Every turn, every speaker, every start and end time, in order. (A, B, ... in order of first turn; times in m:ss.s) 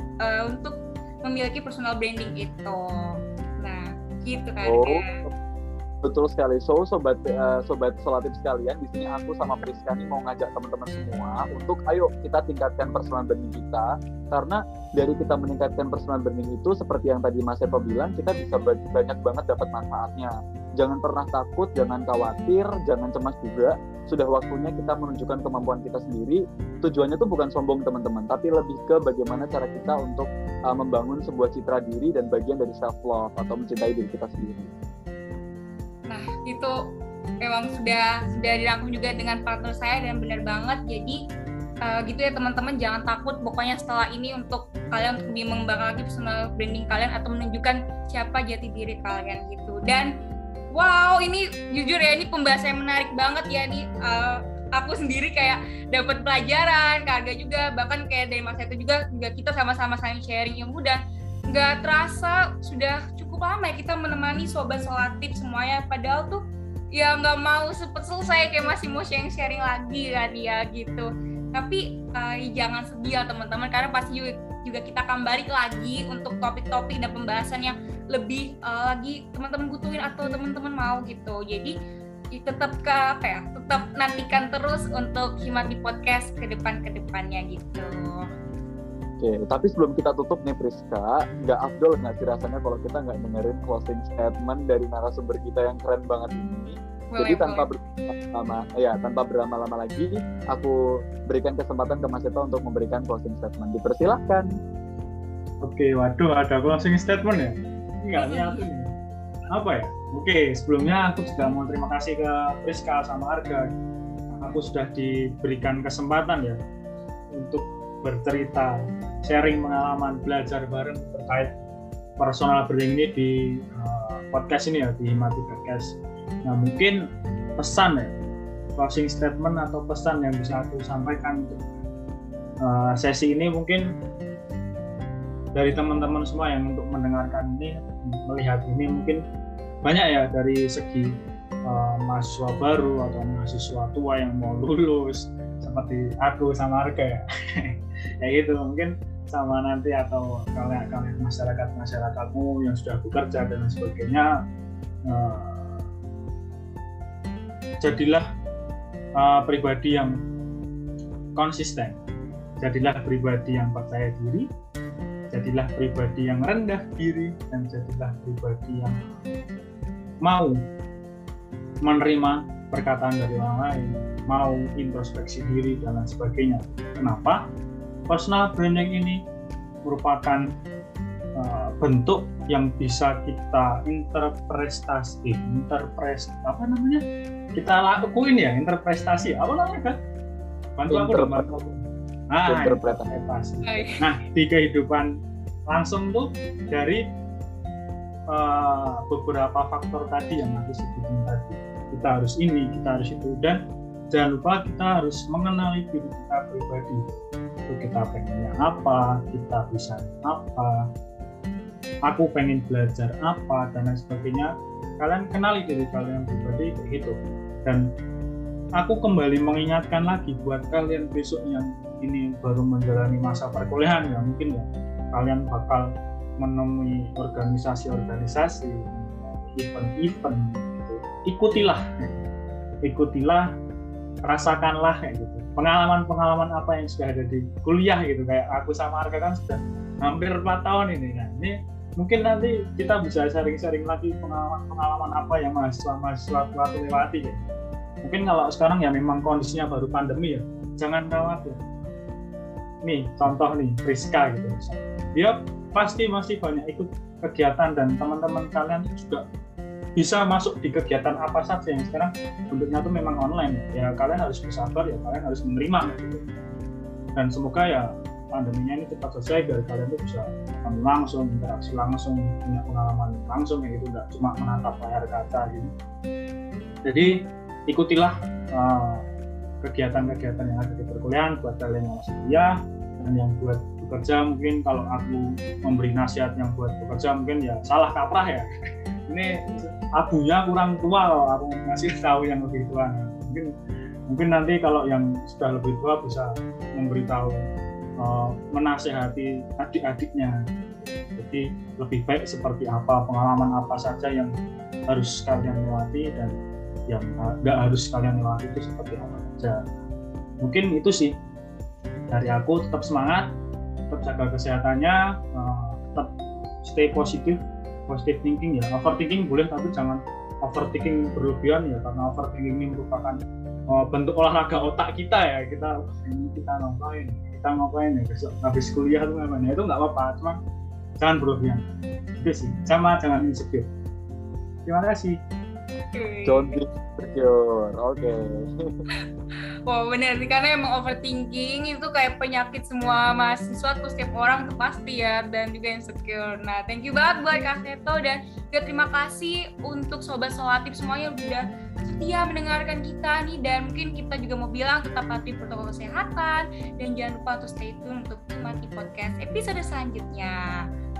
0:00.2-0:02.8 A
0:03.6-0:05.2 A
0:04.6-0:05.0 B
0:06.0-0:34.7 B
0:36.1-0:36.7 A
0:37.4-0:41.2 A
0:41.8-0:50.1 A
0:50.8-1:01.0 A
1:01.5-1:06.4 A
1:06.9-1:21.7 A
1:22.4-1:28.3 A
1:29.2-1:40.7 B
1:37.1-1:37.7 A
1:41.3-1:44.4 B
1:45.6-1:48.9 C
1:48.2-1:48.6 A
1:49.5-1:53.6 C
1:54.4-1:56.6 C
1:57.4-2:01.6 C
2:02.2-2:07.0 C
2:07.6-2:08.1 C
2:08.8-2:11.6 C
2:12.6-2:13.8 C
2:15.5-2:19.2 C
2:19.8-2:21.1 C
2:21.7-2:34.3 C
2:35.1-2:35.8 C
2:37.8-2:38.2 C
2:39.2-2:40.1 C
2:41.4-2:42.0 C
2:42.6-2:44.5 C
2:45.3-2:49.0 C
2:50.2-2:50.6 C
2:51.8-2:57.5 C
2:58.1-2:59.2 C
2:59.8-3:00.4 C
3:01.4-3:07.0 C
3:07.5-3:10.0 C
3:10.8-3:11.8 C
3:10.9-3:11.5 B
3:12.3-3:15.1 C
3:12.5-3:13.0 B
3:13.6-3:14.0 A
3:15.7-3:17.0 C
3:18.3-3:23.6 C
3:24.1-3:27.1 C
3:27.7-3:30.8 C
3:32.1-3:37.8 C
3:38.8-3:45.8 C
3:46.4-3:51.8 C
3:52.8-3:53.4 C
3:54.2-4:07.4 C
4:08.0-4:11.6 C
4:12.8-4:19.2 C
4:20.0-4:26.2 C
4:27.2-4:35.7 C
4:36.8-4:37.1 C
4:37.7-4:39.0 C
4:39.6-4:48.5 C
4:49.1-4:53.5 C
4:54.1-4:57.4 C
4:58.0-5:00.3 C
5:01.2-5:04.3 C
5:04.9-5:06.3 C
5:06.9-5:09.6 C
5:10.4-5:11.1 C
5:12.1-5:13.3 C
5:13.9-5:16.1 C
5:16.6-5:23.2 C
5:23.7-5:30.4 C
5:31.0-5:31.6 C
5:32.2-5:33.7 C
5:34.6-5:35.2 C
5:35.9-5:36.6 A
5:36.3-5:38.2 B
5:39.7-6:00.6 A